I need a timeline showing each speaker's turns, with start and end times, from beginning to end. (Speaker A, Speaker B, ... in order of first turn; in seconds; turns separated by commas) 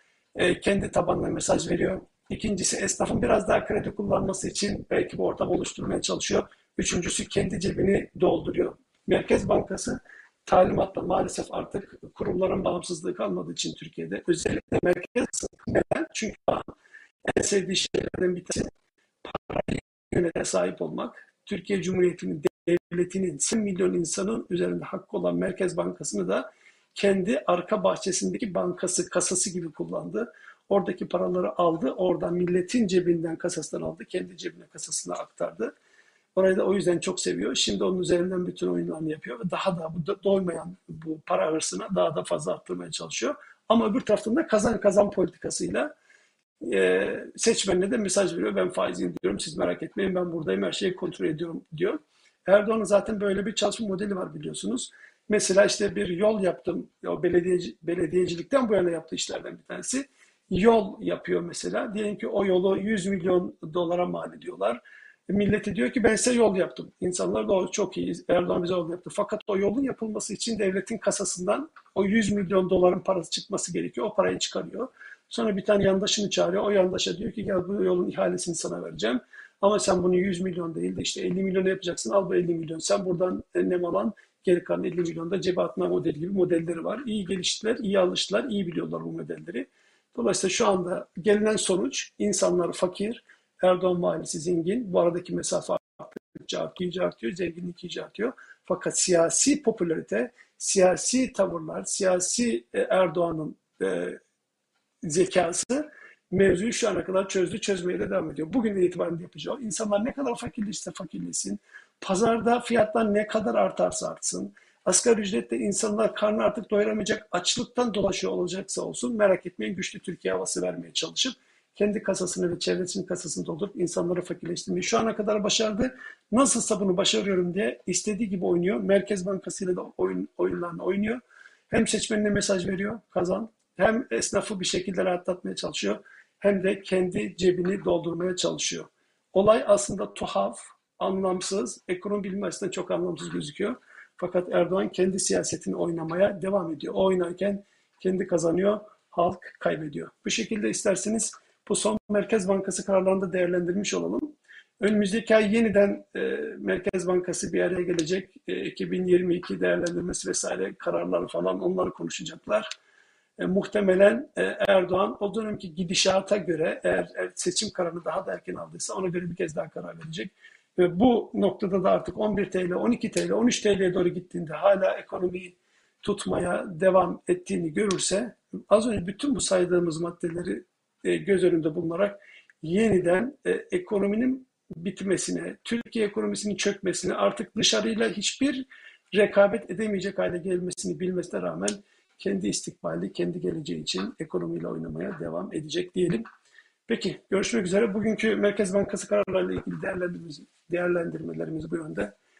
Speaker A: 0.3-16.7, Speaker A: 17.3-18.7, Speaker A: 19.2-35.7, Speaker A: 36.3-45.9, Speaker A: 46.6-104.2, Speaker A: 105.0-162.7, Speaker A: 163.4-196.2, Speaker A: 196.9-202.1